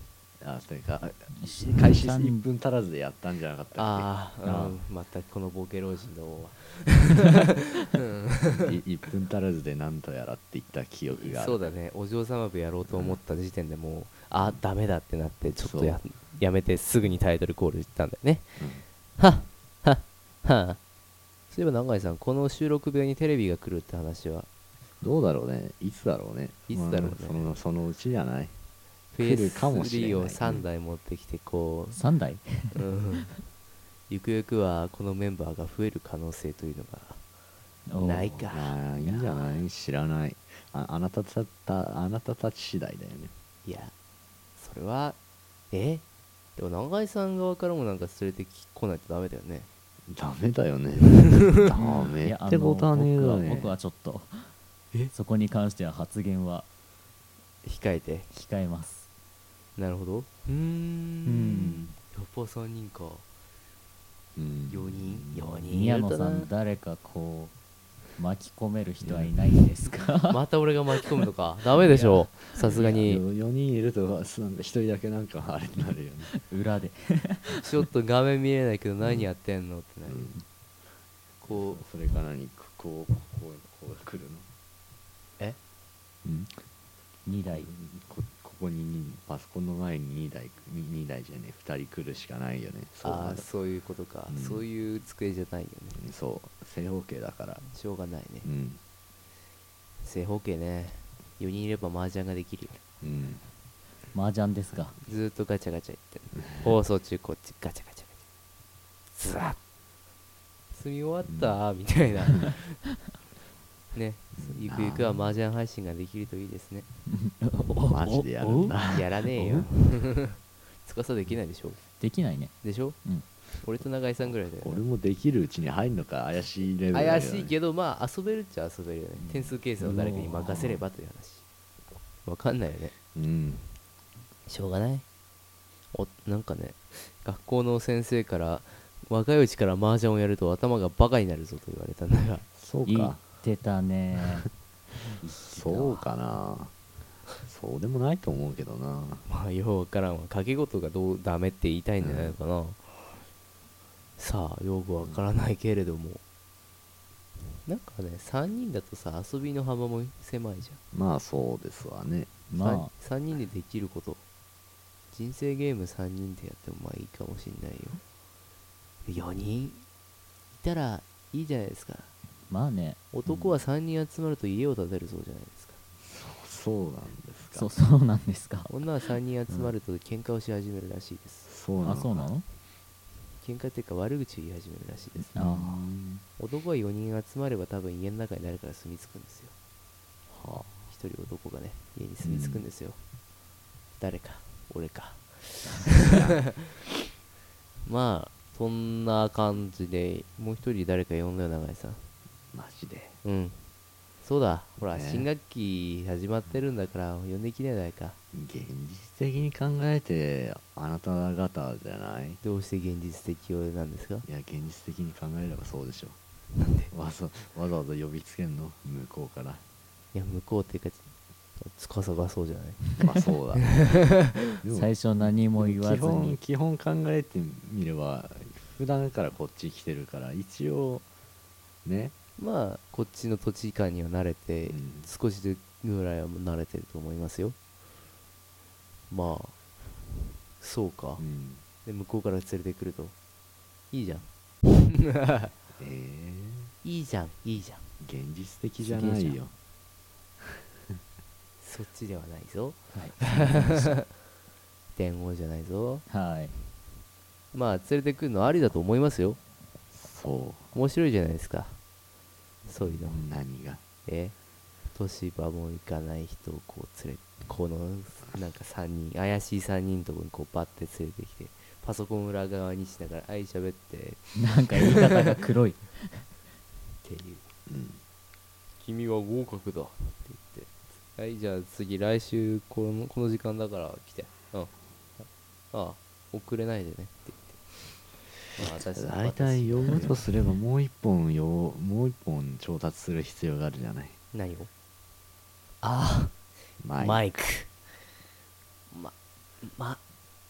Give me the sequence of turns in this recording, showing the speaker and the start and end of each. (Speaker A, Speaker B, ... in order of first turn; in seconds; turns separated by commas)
Speaker A: 0.4-4.1, Speaker B: 1.4-2.4, Speaker C: 3.7-8.8, Speaker B: 4.4-4.8, Speaker A: 8.6-11.7, Speaker C: 11.2-18.6, Speaker A: 12.9-13.2, Speaker A: 15.6-16.0, Speaker A: 18.6-18.8, Speaker C: 19.2-20.8, Speaker C: 21.5-24.5, Speaker A: 25.0-28.5, Speaker C: 26.7-27.6, Speaker C: 29.1-32.0, Speaker A: 29.2-30.6, Speaker B: 31.9-32.8, Speaker C: 32.7-33.3, Speaker C: 34.1-37.2, Speaker B: 37.9-38.4, Speaker C: 38.0-39.6, Speaker A: 38.5-43.3, Speaker C: 43.6-43.9, Speaker C: 44.6-45.2, Speaker C: 45.7-46.0, Speaker C: 46.5-49.7, Speaker A: 50.1-53.7, Speaker C: 51.4-51.7, Speaker B: 52.2-54.5, Speaker B: 55.1-56.6, Speaker C: 57.6-58.3, Speaker B: 58.3-59.1, Speaker C: 59.8-63.2, Speaker B: 61.2-61.9, Speaker A: 64.3-65.6, Speaker C: 64.7-66.5, Speaker B: 65.7-67.5, Speaker B: 68.2-70.4, Speaker A: 69.0-69.4, Speaker C: 70.3-73.2, Speaker B: 71.9-73.0, Speaker A: 72.0-76.3, Speaker B: 76.3-77.8, Speaker C: 77.6-80.3, Speaker A: 80.1-80.4, Speaker C: 81.4-81.8, Speaker A: 81.4-84.5, Speaker A: 86.2-86.5, Speaker B: 87.2-87.7, Speaker A: 87.5-93.5, Speaker C: 93.0-96.0, Speaker A: 94.3-94.6, Speaker A: 96.0-97.6, Speaker C: 97.6-98.5, Speaker A: 98.4-98.8, Speaker C: 100.0-102.8, Speaker A: 103.0-103.4, Speaker B: 104.1-104.9, Speaker C: 105.0-108.2, Speaker C: 109.1-109.6, Speaker C: 110.7-112.8, Speaker A: 111.3-111.6, Speaker C: 113.9-116.9, Speaker A: 114.4-115.2, Speaker B: 117.1-119.0, Speaker A: 117.9-119.7, Speaker C: 118.9-121.8, Speaker B: 122.0-123.2, Speaker C: 122.6-123.0, Speaker C: 123.6-124.8, Speaker A: 124.3-127.5, Speaker C: 126.9-131.4, Speaker B: 129.8-130.6, Speaker C: 132.2-132.9, Speaker A: 133.1-133.6, Speaker C: 134.5-135.0, Speaker C: 135.9-142.5, Speaker A: 142.6-143.2, Speaker B: 142.8-144.5, Speaker B: 145.2-146.1, Speaker A: 145.5-146.7, Speaker A: 147.4-149.2, Speaker C: 149.3-153.2, Speaker A: 152.0-152.3, Speaker C: 154.2-156.2, Speaker C: 157.6-160.8, Speaker A: 160.9-162.4, Speaker B: 162.5-162.9, Speaker C: 162.6-164.2, Speaker C: 165.1-168.0, Speaker C: 169.0-169.8, Speaker C: 170.5-172.1, Speaker B: 172.5-173.0, Speaker C: 173.1-175.8, Speaker A: 173.2-173.6, Speaker A: 176.0-177.7, Speaker B: 177.5-178.8, Speaker C: 178.7-181.5, Speaker A: 181.5-182.3, Speaker B: 181.8-182.4, Speaker C: 183.4-185.4, Speaker A: 185.1-186.2, Speaker B: 185.3-185.8, Speaker C: 186.4-189.5, Speaker A: 190.3-190.9, Speaker C: 190.9-193.0, Speaker A: 192.2-192.6, Speaker C: 194.0-196.7, Speaker A: 196.1-196.3, Speaker C: 197.8-202.0, Speaker A: 202.5-203.2, Speaker C: 203.2-203.6, Speaker C: 204.2-208.2, Speaker A: 204.9-205.3, Speaker A: 208.3-212.4, Speaker C: 212.4-214.2, Speaker A: 214.2-216.2, Speaker C: 216.6-216.9, Speaker A: 216.9-219.6, Speaker C: 220.1-223.0, Speaker A: 223.0-223.9, Speaker C: 223.6-224.4, Speaker A: 224.6-231.1, Speaker B: 224.7-226.4, Speaker A: 231.8-232.1, Speaker C: 232.4-237.6, Speaker A: 234.7-235.1, Speaker C: 239.1-239.6, Speaker C: 240.6-241.2, Speaker A: 241.2-241.6, Speaker C: 241.8-243.1, Speaker C: 243.9-245.5, Speaker A: 245.8-246.7, Speaker C: 246.8-247.8, Speaker A: 248.0-249.5, Speaker B: 248.8-249.3, Speaker C: 251.6-254.1, Speaker B: 252.9-253.9, Speaker C: 254.9-256.1, Speaker B: 256.1-256.6, Speaker C: 257.5-259.4, Speaker A: 259.9-260.7, Speaker C: 260.7-261.8, Speaker C: 262.6-263.2, Speaker A: 262.8-263.8, Speaker C: 264.0-264.3, Speaker C: 264.9-275.2, Speaker B: 274.4-276.3, Speaker C: 277.0-277.4, Speaker A: 277.7-278.0, Speaker C: 278.8-287.9, Speaker C: 288.5-290.2, Speaker A: 288.6-294.1, Speaker C: 294.3-294.7, Speaker C: 295.8-296.4, Speaker A: 296.8-297.2, Speaker C: 297.0-297.8, Speaker C: 298.9-300.0